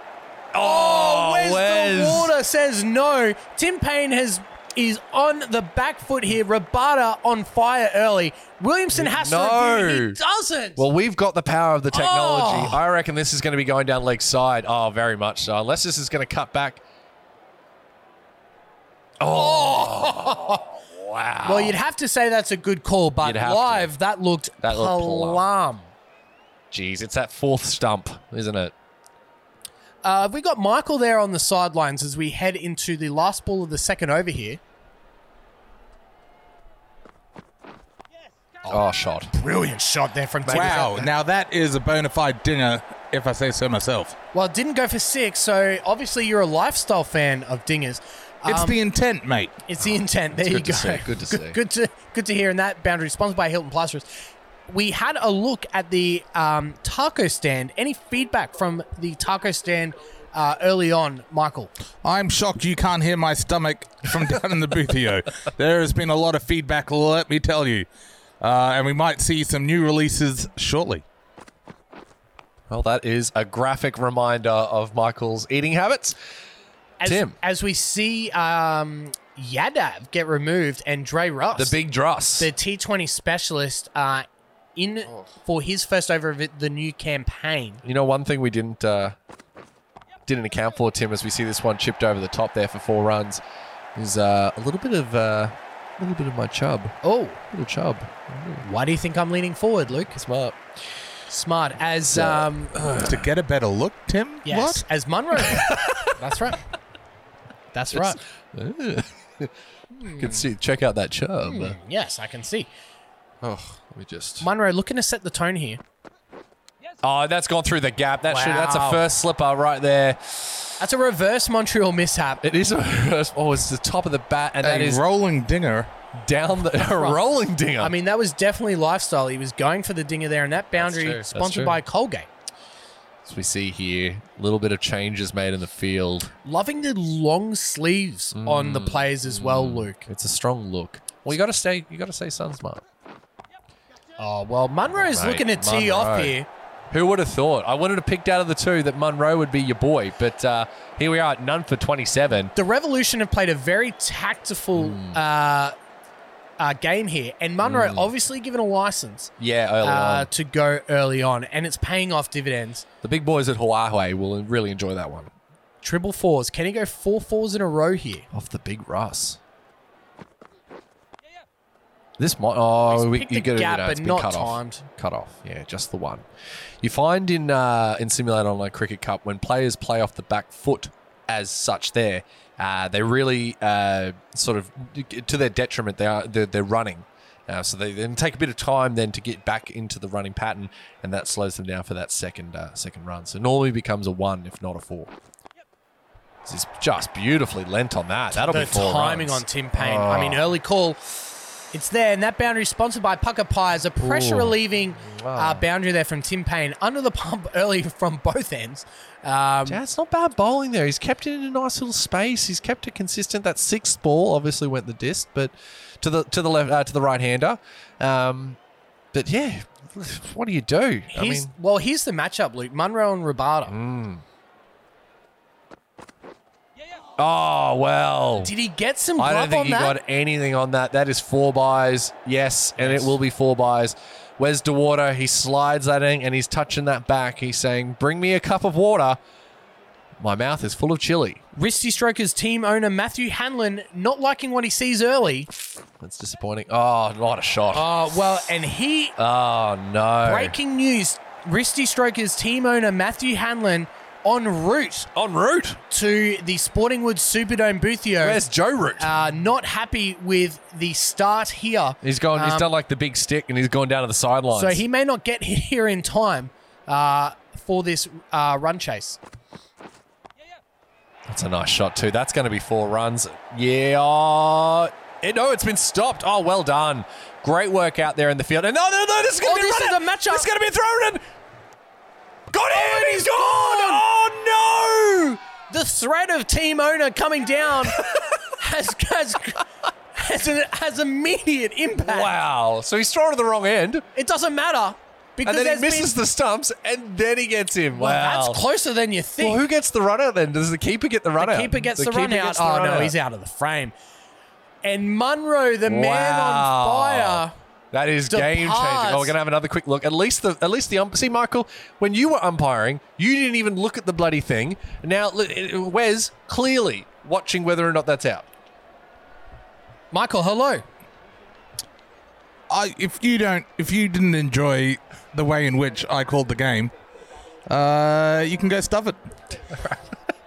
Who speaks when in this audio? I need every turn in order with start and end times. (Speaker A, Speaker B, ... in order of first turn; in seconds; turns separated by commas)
Speaker A: 0.5-2.3, Speaker B: 0.6-10.8, Speaker A: 8.9-10.2, Speaker A: 10.8-16.8, Speaker B: 11.9-12.8, Speaker A: 19.2-21.8, Speaker B: 19.3-20.6, Speaker B: 21.4-25.9, Speaker A: 23.2-23.9, Speaker A: 24.6-25.4, Speaker A: 26.7-28.7, Speaker B: 30.0-34.6, Speaker A: 38.7-39.3, Speaker B: 39.3-41.0, Speaker A: 40.4-40.9, Speaker C: 40.5-44.1, Speaker B: 44.3-48.8, Speaker C: 48.5-49.6, Speaker B: 49.7-54.1, Speaker A: 49.8-51.6, Speaker B: 54.7-61.7, Speaker C: 62.0-67.9, Speaker C: 68.4-71.0, Speaker A: 72.7-76.2, Speaker B: 77.0-81.8, Speaker A: 77.0-77.4, Speaker A: 81.5-82.5, Speaker B: 82.4-87.8, Speaker A: 87.8-89.2, Speaker A: 90.3-93.4, Speaker A: 94.0-97.0, Speaker B: 97.0-97.4, Speaker A: 97.5-98.7, Speaker B: 98.6-100.1, Speaker A: 100.1-100.6, Speaker B: 101.3-102.7, Speaker A: 102.1-103.2, Speaker C: 103.0-104.8, Speaker B: 104.4-106.6, Speaker A: 105.4-106.2, Speaker B: 107.7-108.2, Speaker A: 107.9-111.8, Speaker B: 110.0-110.5, Speaker B: 111.4-112.7, Speaker A: 113.4-114.5, Speaker B: 114.4-115.8, Speaker A: 117.0-120.7, Speaker B: 118.3-119.0, Speaker B: 120.8-122.4, Speaker A: 122.4-125.0, Speaker C: 124.6-125.9, Speaker A: 126.1-127.9, Speaker B: 126.8-127.2, Speaker B: 127.8-132.3, Speaker A: 130.7-131.8, Speaker A: 133.2-136.3, Speaker B: 136.4-140.0, Speaker A: 138.3-142.8, Speaker B: 144.2-146.5, Speaker A: 144.9-146.4, Speaker A: 146.9-152.5, Speaker B: 152.6-155.7, Speaker A: 154.8-155.2, Speaker B: 156.6-162.8, Speaker A: 157.6-158.1, Speaker A: 159.4-160.3, Speaker A: 163.0-165.3, Speaker B: 165.8-168.3, Speaker A: 168.3-169.4, Speaker A: 172.2-176.3, Speaker B: 172.9-174.8, Speaker A: 176.8-195.1, Speaker A: 196.4-200.4, Speaker B: 198.3-201.1, Speaker B: 201.7-209.8, Speaker A: 204.0-205.6, Speaker A: 209.7-218.6, Speaker A: 219.1-221.5, Speaker B: 221.1-223.7, Speaker A: 223.7-224.2, Speaker A: 227.2-228.5, Speaker B: 228.4-229.9, Speaker A: 229.2-239.2, Speaker B: 232.8-233.2, Speaker A: 240.2-241.4, Speaker B: 241.5-245.5, Speaker A: 246.0-247.8, Speaker B: 247.7-249.1, Speaker A: 249.2-250.5, Speaker B: 250.2-255.1, Speaker A: 255.1-255.8, Speaker B: 255.9-258.4, Speaker A: 258.2-259.1, Speaker B: 259.0-262.7, Speaker A: 262.0-264.8, Speaker B: 264.5-269.2, Speaker A: 271.3-281.2, Speaker B: 279.4-280.5, Speaker A: 282.5-285.2, Speaker B: 282.7-284.3, Speaker B: 284.9-292.3, Speaker A: 287.9-288.4, Speaker A: 291.9-294.0, Speaker B: 294.1-296.1, Speaker A: 295.4-298.6, Speaker B: 297.9-299.6, Speaker A: 299.4-303.1, Speaker B: 301.4-303.9, Speaker B: 304.8-307.5, Speaker A: 305.8-318.4, Speaker B: 308.3-309.3, Speaker B: 320.1-320.8, Speaker C: 322.7-326.9, Speaker C: 327.7-329.3